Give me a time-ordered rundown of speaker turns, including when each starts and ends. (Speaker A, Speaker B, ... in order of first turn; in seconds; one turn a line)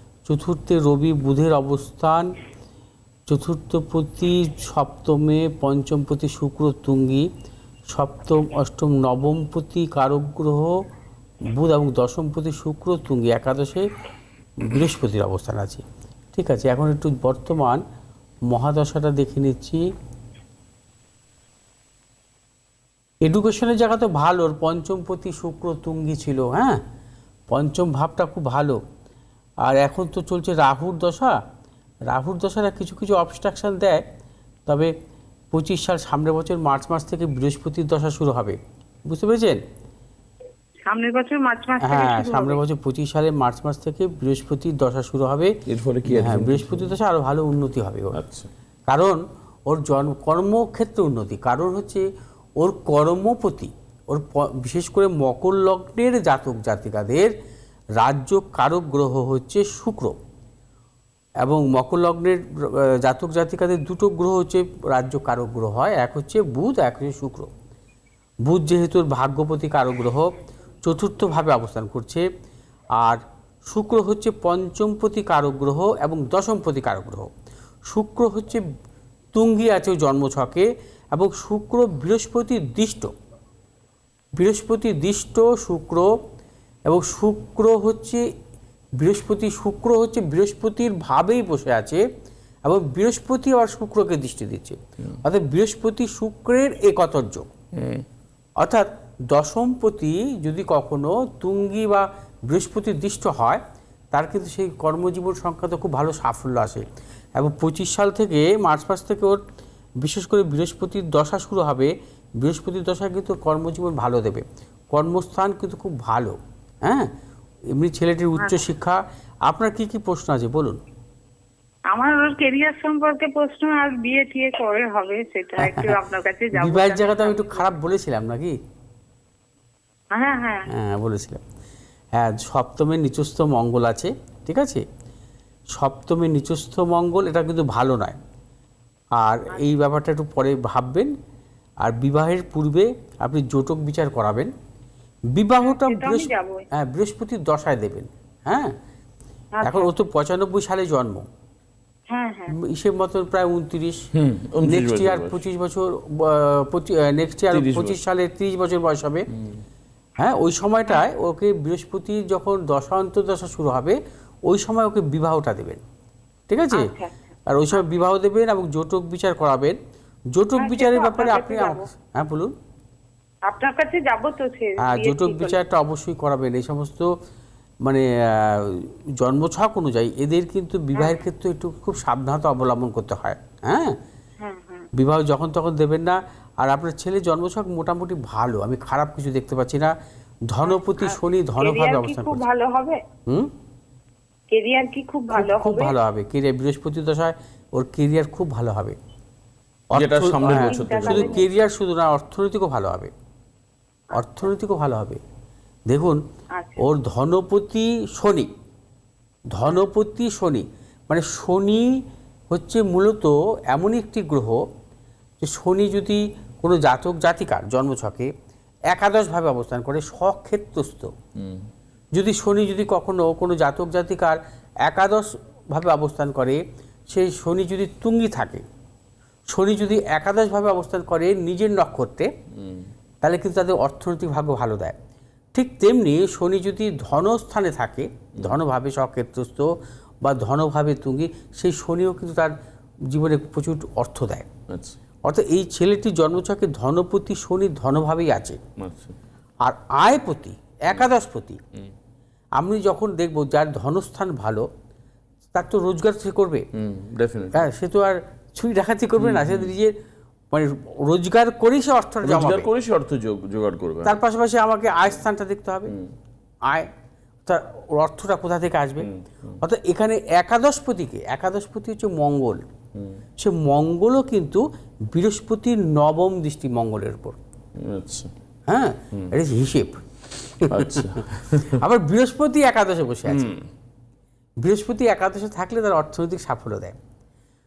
Speaker A: 0.3-2.3
Speaker A: 3.3-7.3
Speaker A: 7.9-10.8
Speaker A: 11.5-13.9
Speaker A: 14.6-17.8
Speaker A: 18.5-19.9
Speaker A: 23.2-26.8
Speaker A: 27.5-28.8
Speaker A: 29.6-31.4
Speaker A: 32.1-34.0
Speaker A: 34.7-34.9
Speaker A: 35.5-39.6
Speaker B: 40.9-42.6
Speaker A: 41.8-48.2
Speaker C: 45.7-47.0
Speaker C: 48.1-48.5
Speaker A: 48.9-52.1
Speaker A: 52.6-57.3
Speaker A: 58.0-60.2
Speaker A: 61.4-67.5
Speaker A: 68.5-72.3
Speaker A: 73.0-77.3
Speaker A: 77.9-78.7
Speaker A: 79.3-83.1
Speaker A: 84.4-86.1
Speaker A: 86.9-88.3
Speaker A: 89.0-92.0
Speaker A: 92.7-97.5
Speaker C: 97.7-98.1
Speaker A: 98.6-106.8
Speaker A: 107.4-109.4
Speaker A: 110.0-117.1
Speaker A: 117.7-120.8
Speaker B: 121.9-127.7
Speaker A: 125.6-126.0
Speaker A: 126.6-128.6
Speaker B: 130.1-130.7
Speaker A: 130.7-131.4
Speaker A: 132.2-134.8
Speaker A: 135.8-138.2
Speaker A: 139.2-141.1
Speaker A: 141.8-144.5
Speaker A: 145.3-148.8
Speaker B: 145.6-146.7
Speaker B: 149.6-149.9
Speaker A: 149.6-151.3
Speaker B: 152.1-152.6
Speaker A: 152.5-154.1
Speaker C: 154.1-155.4
Speaker A: 154.6-159.3
Speaker C: 157.5-158.0
Speaker C: 159.3-159.6
Speaker A: 160.2-165.8
Speaker A: 166.5-166.9
Speaker B: 166.7-167.1
Speaker A: 167.5-169.8
Speaker A: 170.3-172.5
Speaker B: 170.6-171.9
Speaker B: 173.5-175.6
Speaker A: 174.8-177.1
Speaker A: 177.8-184.0
Speaker B: 181.0-181.2
Speaker B: 184.4-184.9
Speaker A: 184.9-189.9
Speaker A: 190.5-192.4
Speaker B: 190.7-193.0
Speaker B: 194.5-195.9
Speaker A: 195.3-199.0
Speaker A: 199.9-203.1
Speaker C: 199.9-201.4
Speaker B: 200.4-201.5
Speaker A: 204.1-205.2
Speaker A: 205.9-206.2
Speaker B: 206.6-206.8
Speaker A: 206.8-208.5
Speaker A: 209.5-214.6
Speaker A: 215.4-218.3
Speaker A: 218.9-221.1
Speaker C: 221.4-221.7
Speaker A: 222.2-228.6
Speaker A: 229.5-232.3
Speaker C: 232.5-232.9
Speaker A: 233.2-235.0
Speaker A: 235.6-242.5
Speaker A: 243.1-244.5
Speaker C: 244.7-245.0
Speaker A: 245.2-248.6
Speaker C: 248.8-249.2
Speaker A: 249.6-251.6
Speaker A: 252.6-254.7
Speaker A: 255.5-256.7
Speaker C: 256.7-257.7
Speaker A: 257.5-260.0
Speaker C: 259.2-259.7
Speaker A: 260.5-262.7
Speaker C: 262.2-264.2
Speaker A: 264.1-266.0
Speaker C: 265.9-266.1
Speaker A: 267.5-269.1
Speaker C: 269.0-269.6
Speaker A: 269.6-272.6
Speaker A: 273.4-277.4
Speaker C: 277.8-278.3
Speaker A: 278.7-280.0
Speaker A: 280.6-283.5
Speaker C: 280.7-281.8
Speaker C: 283.3-283.7
Speaker A: 284.6-287.0